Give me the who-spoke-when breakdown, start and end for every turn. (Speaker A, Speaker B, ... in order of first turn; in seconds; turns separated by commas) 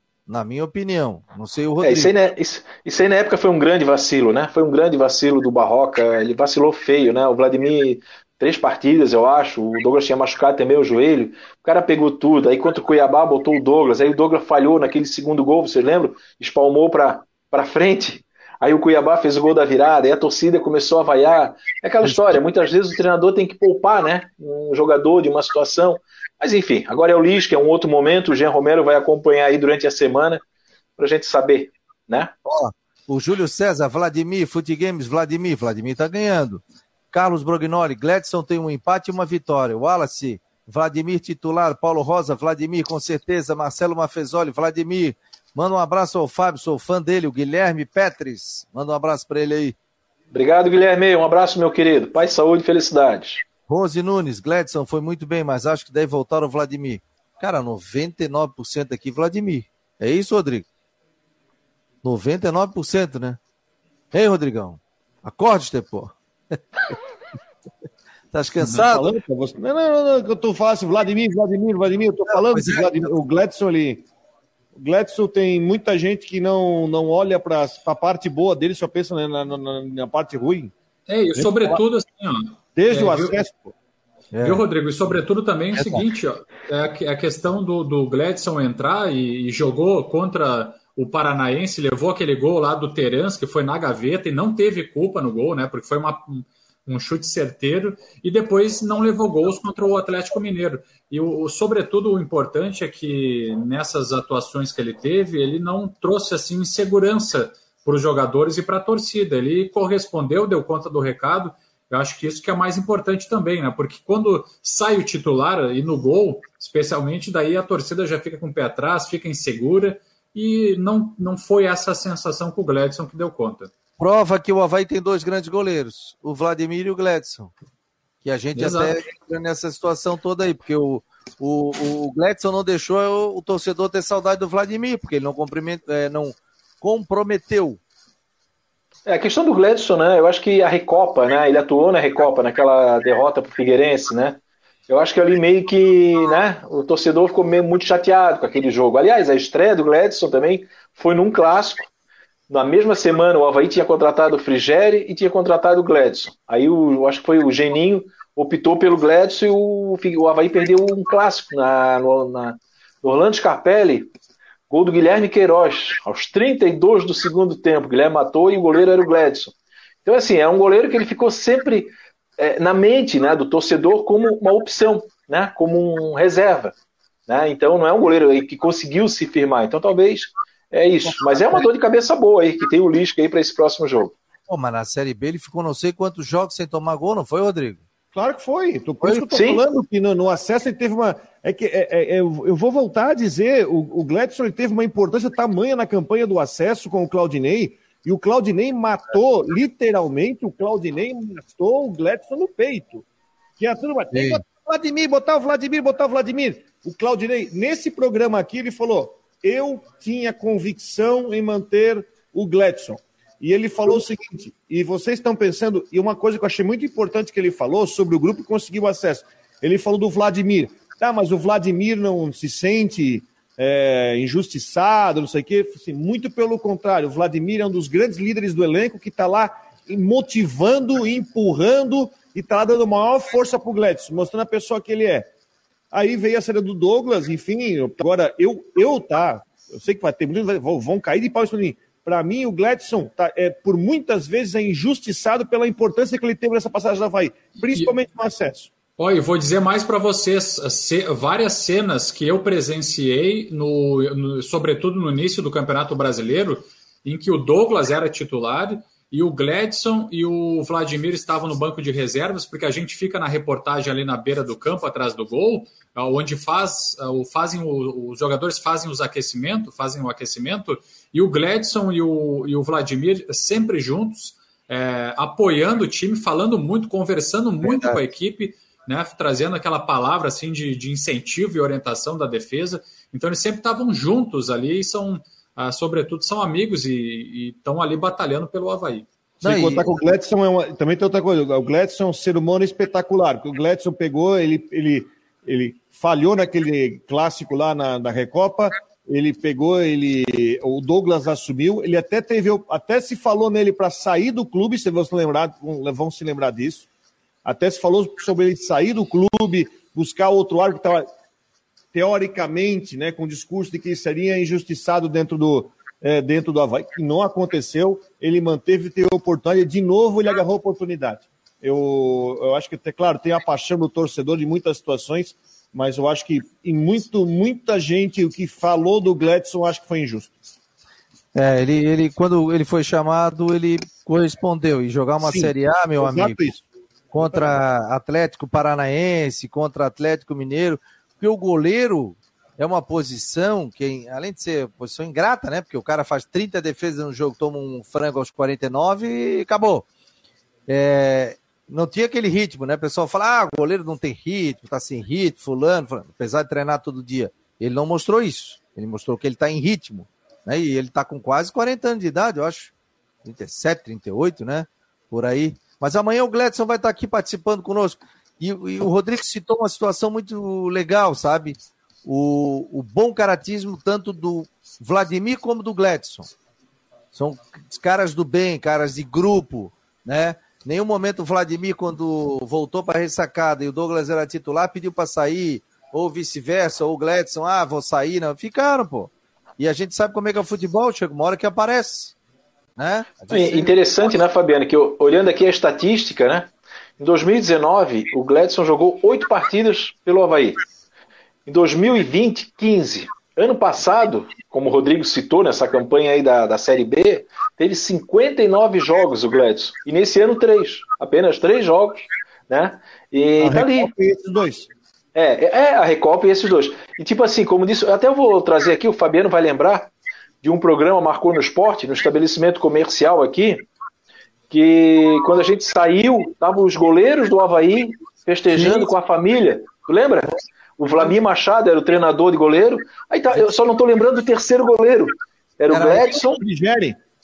Speaker A: 0.3-2.1, Speaker B: 1.8-30.4, Speaker A: 22.0-22.4, Speaker B: 31.0-32.3, Speaker A: 32.5-49.8, Speaker B: 50.3-53.5, Speaker A: 53.7-60.7, Speaker A: 62.0-63.4, Speaker A: 64.1-66.6, Speaker A: 68.3-69.1, Speaker C: 68.7-74.1, Speaker A: 72.3-73.1, Speaker C: 74.8-80.7, Speaker D: 81.1-83.3, Speaker C: 81.3-81.8, Speaker C: 82.8-83.7, Speaker A: 84.3-84.6, Speaker D: 84.4-123.7, Speaker A: 85.7-86.1, Speaker A: 124.0-127.5, Speaker A: 128.2-137.8, Speaker D: 128.6-129.0, Speaker B: 139.1-151.9, Speaker B: 152.5-164.1, Speaker B: 164.7-169.5, Speaker B: 170.1-176.7, Speaker B: 177.3-184.1, Speaker A: 184.5-187.8, Speaker C: 188.1-203.1, Speaker B: 189.3-189.6, Speaker C: 203.6-235.3, Speaker A: 204.1-204.4, Speaker C: 235.9-248.7, Speaker D: 249.0-289.1, Speaker A: 277.6-278.0, Speaker A: 289.4-289.9, Speaker C: 289.4-306.9, Speaker C: 307.4-311.1, Speaker C: 311.9-330.4, Speaker A: 331.4-336.4, Speaker C: 335.2-336.6, Speaker A: 337.1-349.9, Speaker C: 337.2-337.5, Speaker A: 350.7-362.7, Speaker A: 363.2-376.3, Speaker A: 377.1-392.2, Speaker A: 392.8-393.7, Speaker B: 393.3-400.6, Speaker B: 401.5-413.9, Speaker C: 413.4-414.7, Speaker B: 415.1-423.6, Speaker B: 424.5-436.4, Speaker A: 428.5-428.9, Speaker A: 435.7-436.0, Speaker C: 435.8-437.0